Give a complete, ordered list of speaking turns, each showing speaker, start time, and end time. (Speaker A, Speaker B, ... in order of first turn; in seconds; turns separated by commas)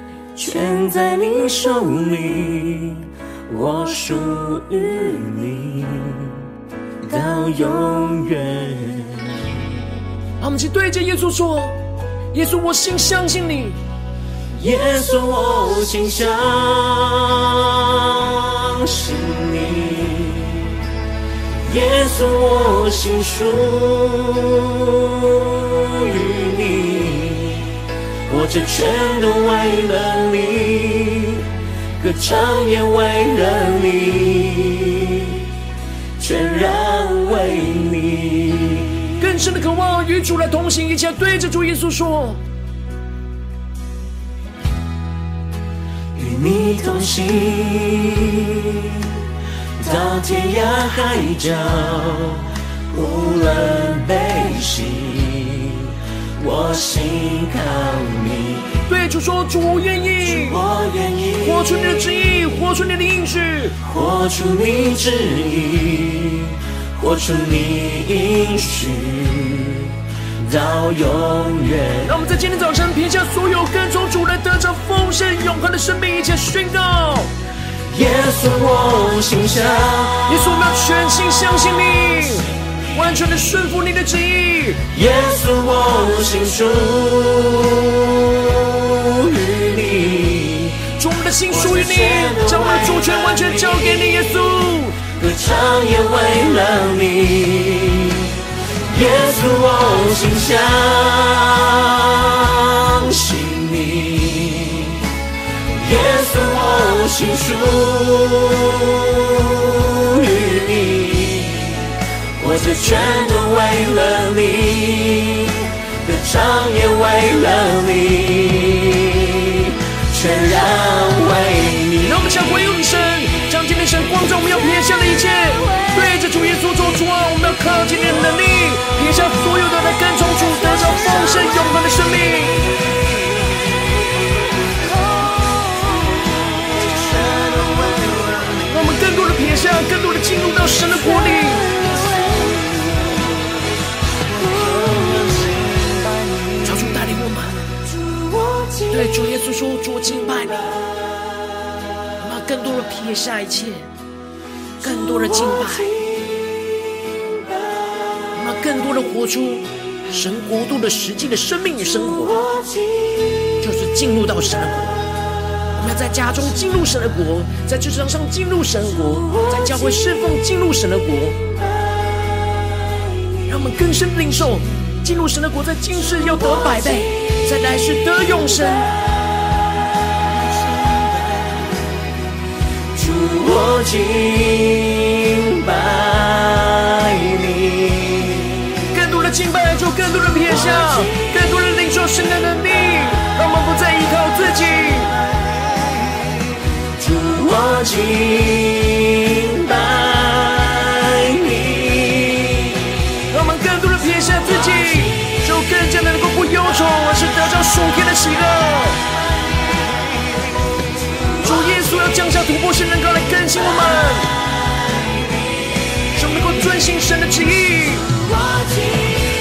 Speaker A: 0.3-6.5, Speaker A: 7.0-9.5, Speaker B: 10.4-11.8, Speaker B: 12.3-13.8, Speaker A: 14.5-20.8, Speaker A: 21.6-35.5, Speaker A: 36.2-39.1, Speaker B: 39.2-42.4, Speaker A: 46.1-58.8, Speaker B: 58.9-60.6, Speaker A: 60.3-62.2, Speaker B: 61.4-63.8, Speaker A: 63.8-72.1, Speaker B: 72.0-77.3, Speaker A: 77.8-80.8, Speaker B: 80.2-84.9, Speaker A: 84.9-90.9, Speaker B: 91.0-95.1, Speaker A: 91.5-122.1, Speaker B: 122.0-132.8, Speaker A: 136.8-138.3, Speaker B: 138.7-141.8, Speaker A: 141.8-142.4, Speaker A: 144.4-145.5, Speaker B: 146.6-147.7, Speaker B: 148.8-150.8, Speaker B: 152.2-153.9, Speaker B: 154.8-156.0, Speaker A: 155.2-156.3, Speaker B: 158.3-162.4, Speaker A: 162.3-163.4, Speaker B: 163.6-165.1, Speaker B: 165.7-171.4, Speaker B: 173.4-178.9, Speaker A: 182.9-188.8, Speaker B: 188.9-195.2, Speaker A: 190.7-191.2, Speaker A: 196.9-202.9, Speaker B: 203.3-209.1, Speaker B: 211.4-214.4, Speaker B: 216.1-218.2, Speaker A: 218.3-219.1